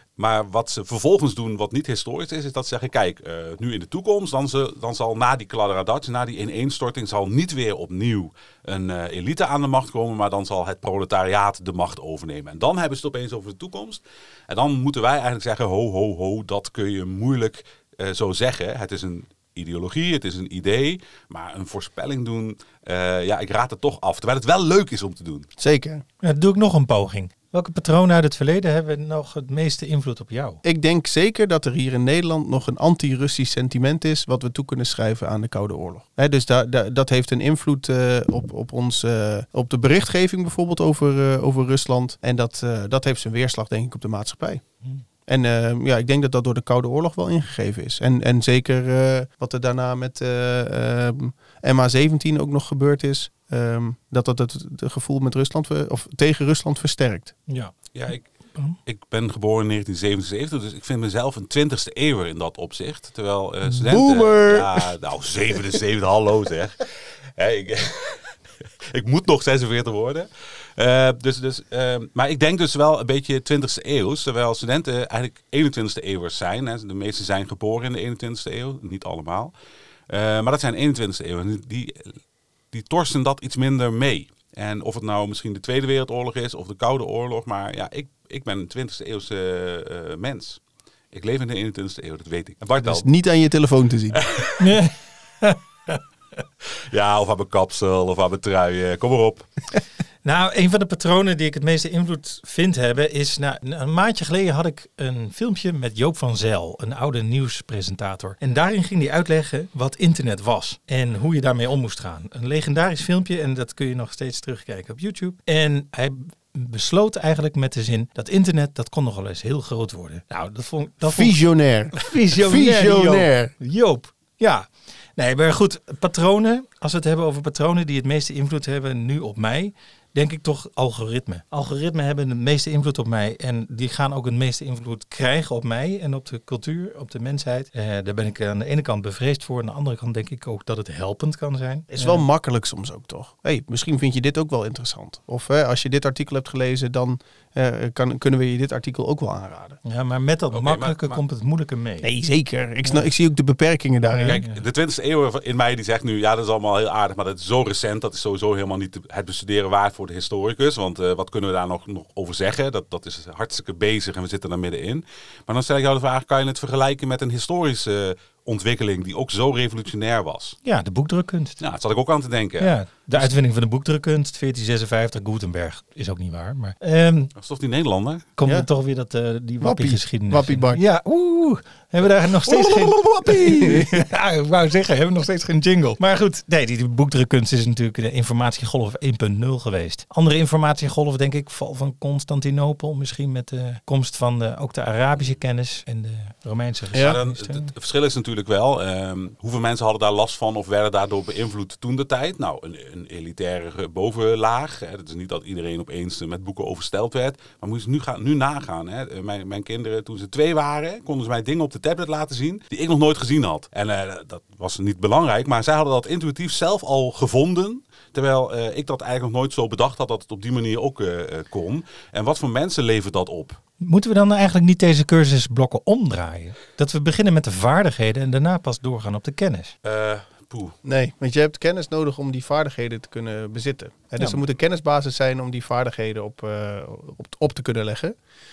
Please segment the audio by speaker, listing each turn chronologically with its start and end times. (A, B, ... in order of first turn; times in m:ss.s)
0:00.2-0:25.5 A
0:25.6-0:26.0 B
0:26.2-0:30.6 C
0:30.6-0:44.6 B
0:45.3-0:57.4 B
0:57.5-0:57.8 C
0:57.9-0:58.3 A
0:58.9-1:08.3 A
1:03.8-1:04.9 B
1:08.9-1:19.5 A
1:20.1-1:22.2 A
1:22.7-1:30.6 A
1:31.1-1:33.1 A
1:32.8-1:34.2 B
1:34.1-1:34.8 A
1:34.6-1:36.0 C
1:36.9-1:39.5 A
1:40.2-2:01.4 C
2:01.1-2:03.5 B
2:01.9-2:22.2 C
2:21.9-2:29.8 B
2:29.8-2:32.1 C
2:30.5-2:31.2 A
2:32.0-2:34.4 B
2:34.1-2:34.6 C
2:34.2-2:50.6 A
2:50.6-2:51.6 C
2:51.6-2:52.7 A
2:52.6-2:57.3 C
2:57.4-2:58.3 A
2:58.4-3:17.7 C
2:59.6-3:00.8 B
3:02.5-3:03.8 A
3:03.5-3:04.0 B
3:17.0-3:43.6 A
3:43.8-3:49.8 C
3:49.8-3:50.8 A
3:50.8-3:58.2 B